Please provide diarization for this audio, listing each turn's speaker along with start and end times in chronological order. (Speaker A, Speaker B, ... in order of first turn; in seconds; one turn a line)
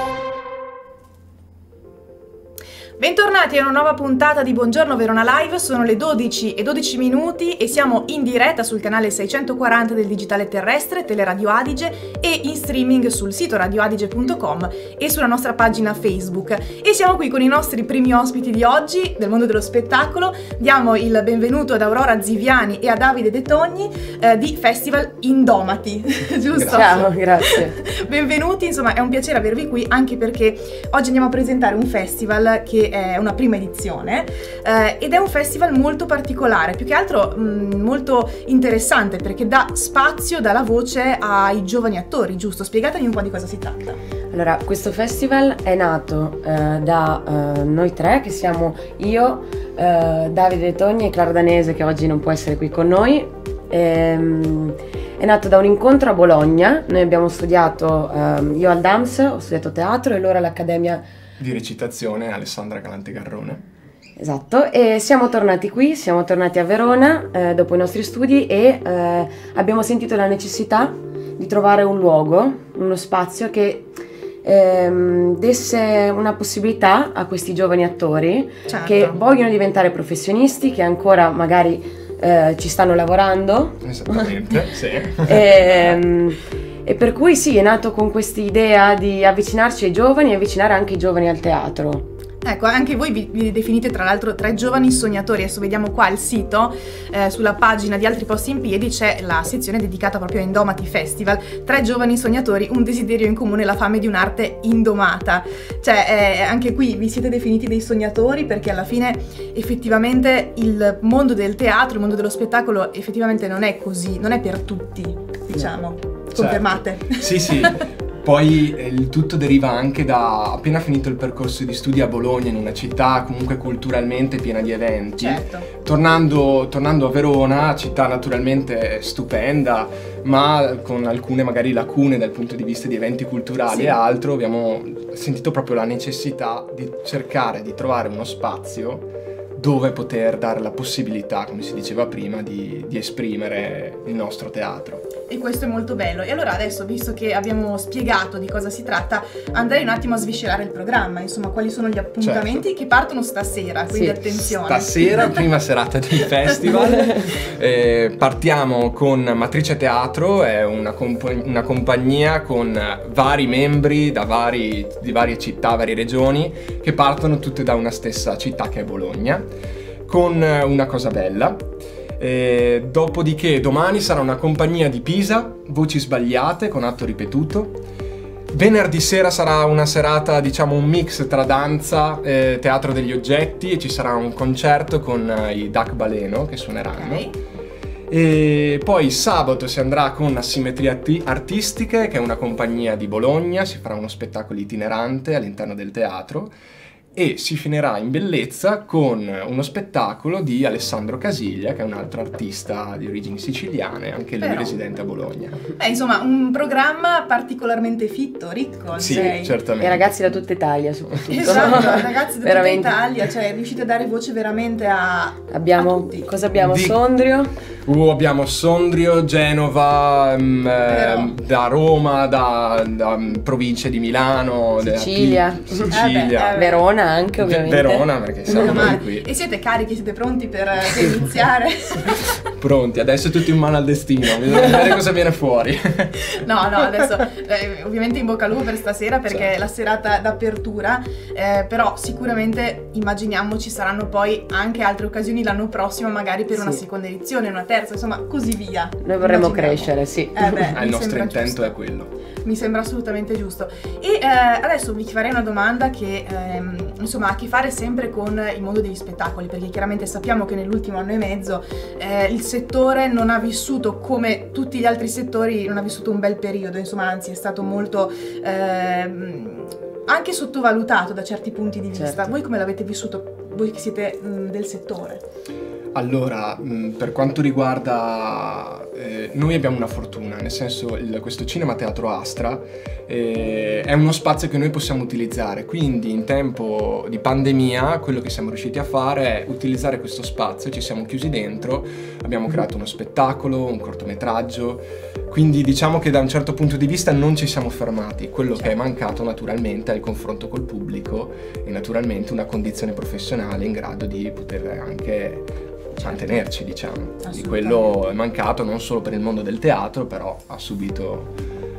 Speaker A: 3.0-44.0
Speaker B: 26.6-27.1
Speaker C: 26.7-27.8
Speaker C: 44.3-61.0
Speaker B: 61.4-63.6
Speaker C: 64.2-73.9
Speaker C: 74.4-84.5
Speaker A: 78.7-79.2
Speaker B: 83.8-86.0
Speaker C: 85.2-92.0
Speaker A: 92.4-117.8
Speaker B: 116.3-145.1
Speaker A: 125.2-125.7
Speaker A: 133.7-134.0
Speaker A: 145.3-155.4
Speaker B: 152.2-152.6
Speaker B: 154.4-169.4
Speaker B: 170.1-171.6
Speaker B: 172.2-177.8
Speaker B: 178.5-187.3
Speaker A: 186.9-187.3
Speaker B: 188.1-196.5
Speaker B: 197.1-205.6
Speaker A: 204.4-204.8
Speaker A: 205.8-209.6
Speaker B: 208.9-210.1
Speaker C: 209.0-213.0
Speaker B: 211.3-211.9
Speaker A: 211.3-216.3
Speaker C: 215.5-217.5
Speaker B: 216.6-217.0
Speaker B: 217.8-226.6
Speaker A: 220.9-221.3
Speaker C: 224.8-226.0
Speaker A: 225.9-226.8
Speaker C: 226.6-228.9
Speaker B: 227.4-229.3
Speaker A: 228.4-232.4
Speaker B: 232.6-236.1
Speaker A: 236.4-251.8
Speaker C: 246.5-246.8
Speaker C: 249.0-250.8
Speaker B: 250.7-252.1
Speaker A: 252.4-275.2
Speaker C: 271.9-272.3
Speaker B: 275.9-311.3
Speaker A: 306.0-306.3
Speaker A: 307.2-307.9